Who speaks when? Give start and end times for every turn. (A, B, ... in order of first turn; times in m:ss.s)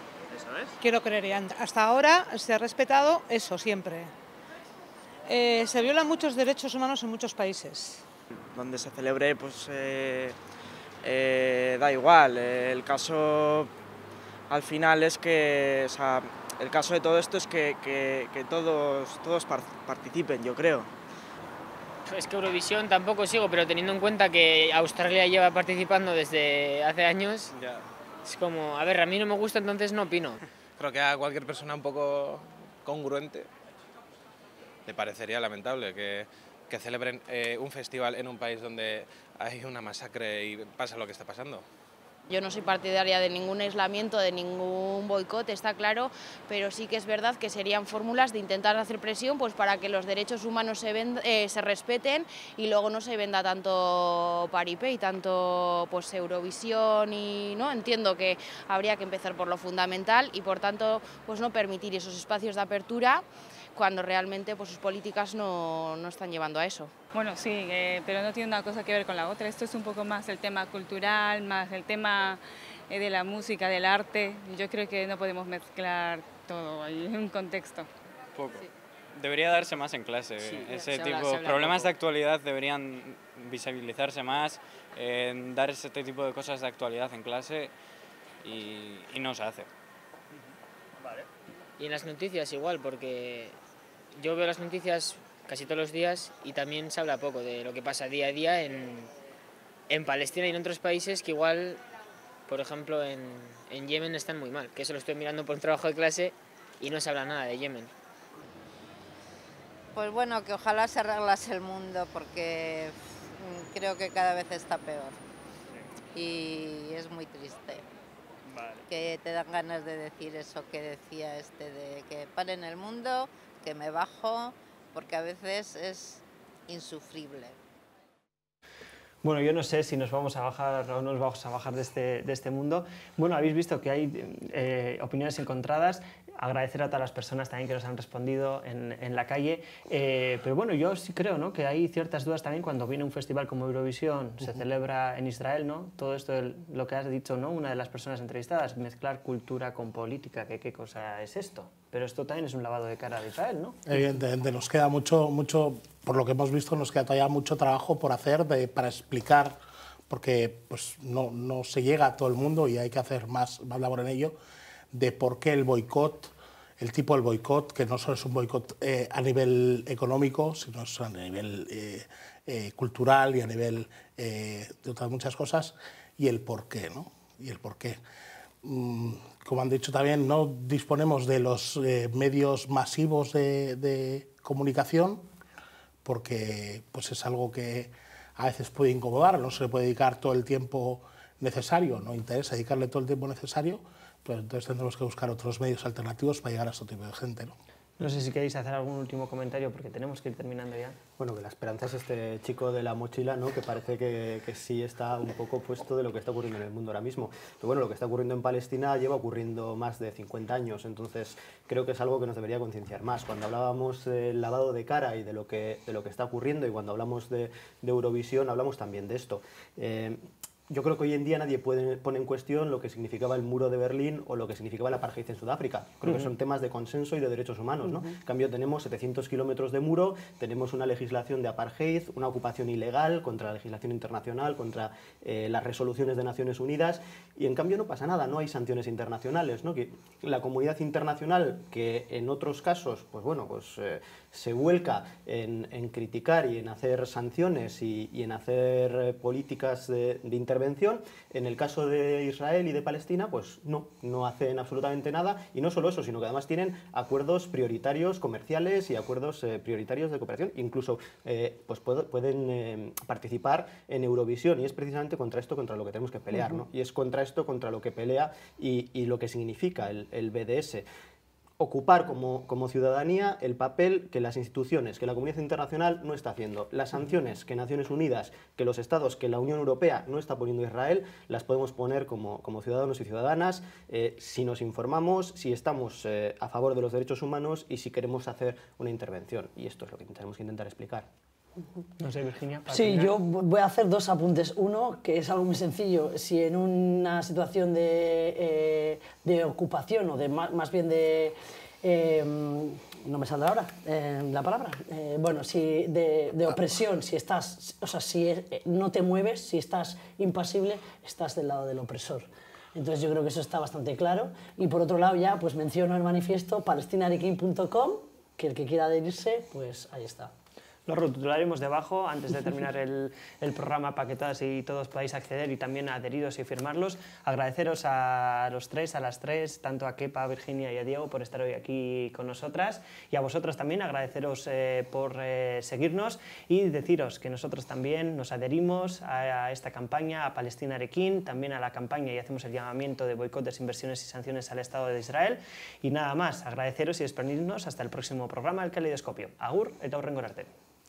0:00.8-0:04.1 A
0:05.3-0:08.0 A
0:08.5-0:10.4 B
0:11.0-0:13.7 B
0:14.5-0:20.9 B
0:22.0-0:27.5 C
0:28.2-0:30.4 C
0:30.8-0:33.5 D
0:34.8-0:41.6 D
0:42.3-1:06.9 E
1:07.1-1:17.9 F
1:18.3-1:27.7 G
1:28.4-1:29.7 G
1:31.8-1:33.6 C
1:34.1-1:39.1 C
1:39.9-1:41.8 C
1:42.5-1:47.9 C
1:49.9-1:55.2 H
1:56.1-1:57.8 H
1:58.9-2:07.5 H
2:09.2-2:33.8 I
2:33.9-2:39.6 J
2:40.1-2:44.3 J
2:44.9-2:58.0 J
2:58.6-3:05.2 J
3:06.0-3:17.6 J
3:18.0-3:21.0 I
3:21.2-4:30.8 K
4:31.6-4:51.1 K
4:52.0-4:53.1 I
4:52.7-5:20.3 L
5:20.9-5:50.5 I